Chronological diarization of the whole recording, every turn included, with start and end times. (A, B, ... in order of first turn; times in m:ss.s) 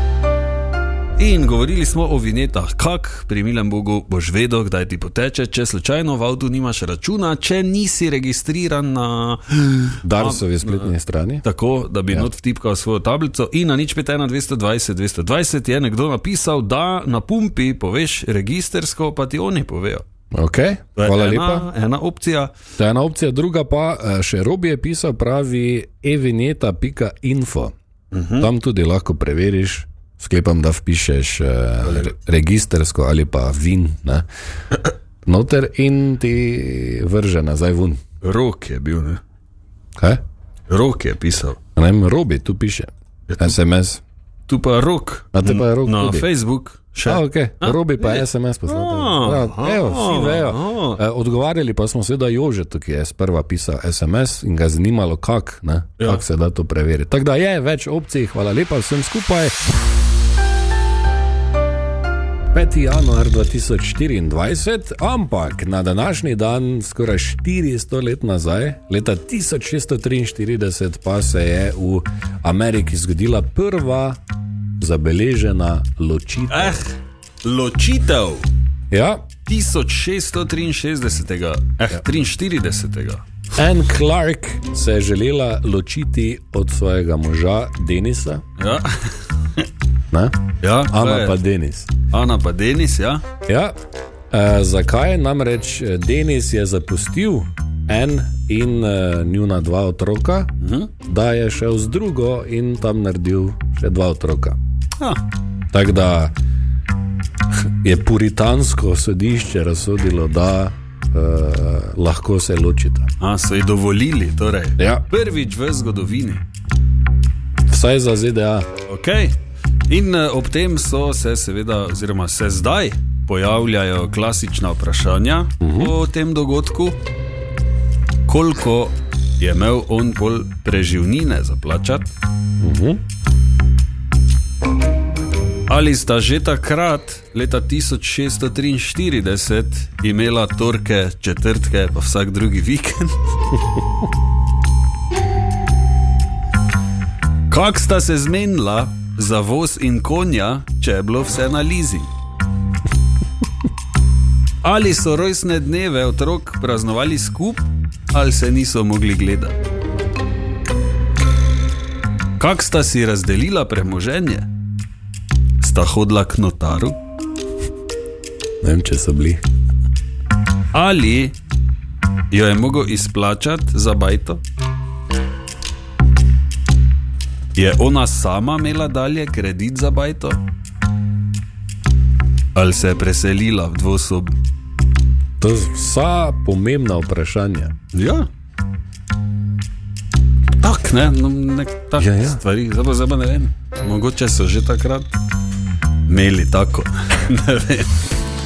0:01.2-0:20.0 A
0:10.0-0:11.4 B
0:20.3-0:21.7 B
0:21.0-0:22.5 A
0:22.8-0:27.7 B
0:28.1-0:28.5 A
0:28.4-0:34.2 B
0:31.8-0:32.1 A
0:35.2-0:38.0 B
0:38.2-0:39.2 A
0:40.7-0:41.6 A
0:41.8-0:44.0 B
0:43.3-0:43.6 A
0:44.5-0:51.0 A
0:45.3-0:46.3 B
0:47.0-0:59.5 B
0:56.0-0:56.2 A
1:02.5-1:14.2 B
1:14.8-1:16.8 B
1:16.5-1:18.5 A
1:18.9-1:19.2 B
1:19.4-1:23.2 A
1:23.6-1:28.4 B
1:28.6-1:29.3 A
1:30.6-1:31.4 A
1:30.8-1:31.9 B
1:32.1-1:33.2 A
1:33.4-1:33.7 B
1:34.3-1:40.5 B
1:40.6-1:40.9 A
1:41.0-1:44.6 B
1:45.7-1:46.3 B
1:47.8-1:53.1 B
1:53.2-1:56.4 A
1:54.8-1:55.0 B
1:57.7-1:58.7 B
1:58.8-1:59.4 A
1:59.9-2:07.0 A
2:05.6-2:05.9 B
2:08.2-2:12.1 A
2:12.6-2:13.0 B
2:15.7-2:23.3 A
2:27.5-2:32.1 A
2:34.6-2:39.6 A
2:42.4-2:44.5 A
2:45.6-2:47.0 A
2:48.6-2:49.4 B
2:50.7-2:51.3 A
2:52.3-2:54.4 A
2:57.5-3:00.4 A
3:02.5-3:04.3 A
3:05.4-3:07.7 B
3:07.9-3:08.3 A
3:10.6-3:15.2 A
3:12.0-3:12.4 B
3:16.0-3:17.9 A